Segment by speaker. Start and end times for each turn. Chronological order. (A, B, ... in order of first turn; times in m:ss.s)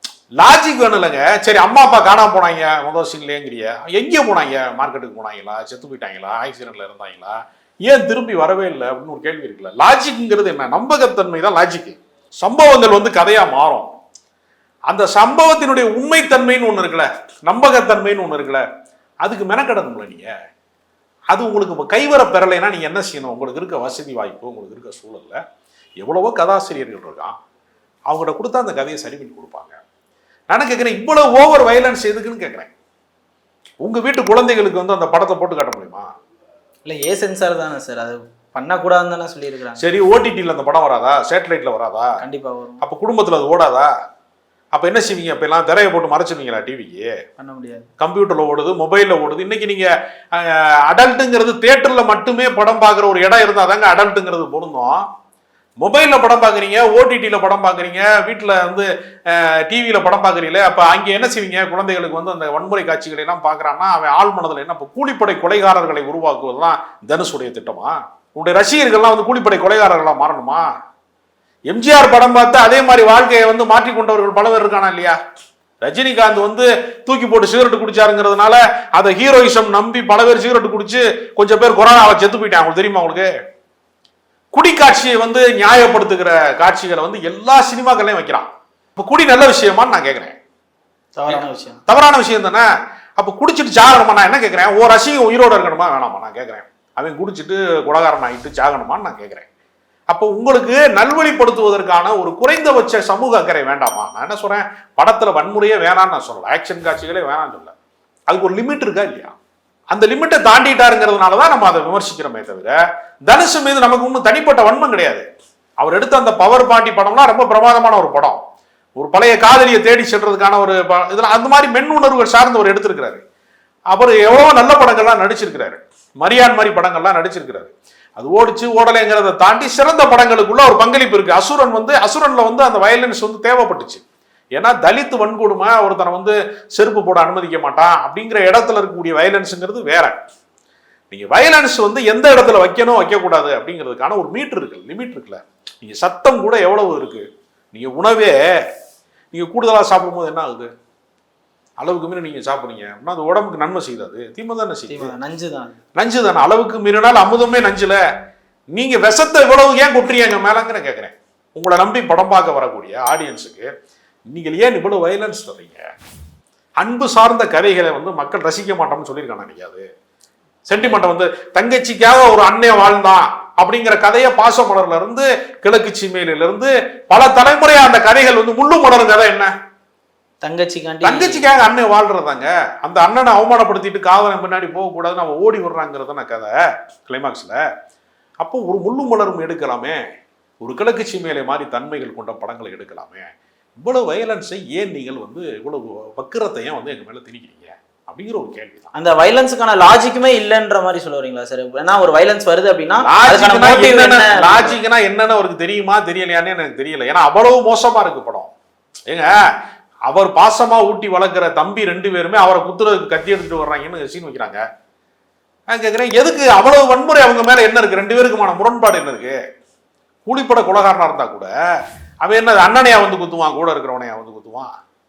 0:00.4-0:13.9 A
0:14.9-0:18.6 A
0:19.2-0:20.3 A
0:21.3-0:25.4 A
0:26.0-0:27.3 A
0:28.1-0:29.8 A
0:30.5-0:32.7 A
0:33.8-0:36.1 A
0:36.8-0:39.8 B
0:39.8-0:42.1 A
0:42.2-0:42.8 B
0:42.8-0:43.9 A
0:44.7-0:47.1 A
0:47.4-0:47.9 B
0:48.0-0:55.0 A
0:55.8-1:10.6 A
1:11.7-1:15.2 A
1:15.8-1:23.3 A
1:24.5-1:30.4 A
1:31.2-1:31.8 B
1:31.3-1:32.7 A
1:33.2-1:39.4 A
1:40.1-1:47.7 A
1:48.3-1:49.3 A
1:49.9-1:55.2 A
1:55.8-1:58.4 A
1:59.0-2:03.2 A
2:03.9-2:14.0 A
2:14.6-2:20.2 A
2:21.1-2:28.6 A
2:29.3-2:30.7 A
2:31.8-2:35.1 A
2:34.9-2:35.8 B
2:35.9-2:38.0 A
2:38.7-2:43.7 A
2:44.3-2:45.8 A
2:46.8-2:49.8 A
2:50.7-2:59.5 A
3:00.4-3:01.4 B
3:01.0-3:06.5 A
3:07.1-3:07.6 A
3:08.4-3:10.0 A
3:10.6-3:13.3 A
3:13.8-3:18.9 A
3:18.9-3:24.8 B
3:23.0-3:28.5 A
3:29.1-3:29.4 A
3:30.1-3:34.6 A
3:35.7-3:39.4 A
3:40.3-3:41.5 A
3:42.2-3:44.7 A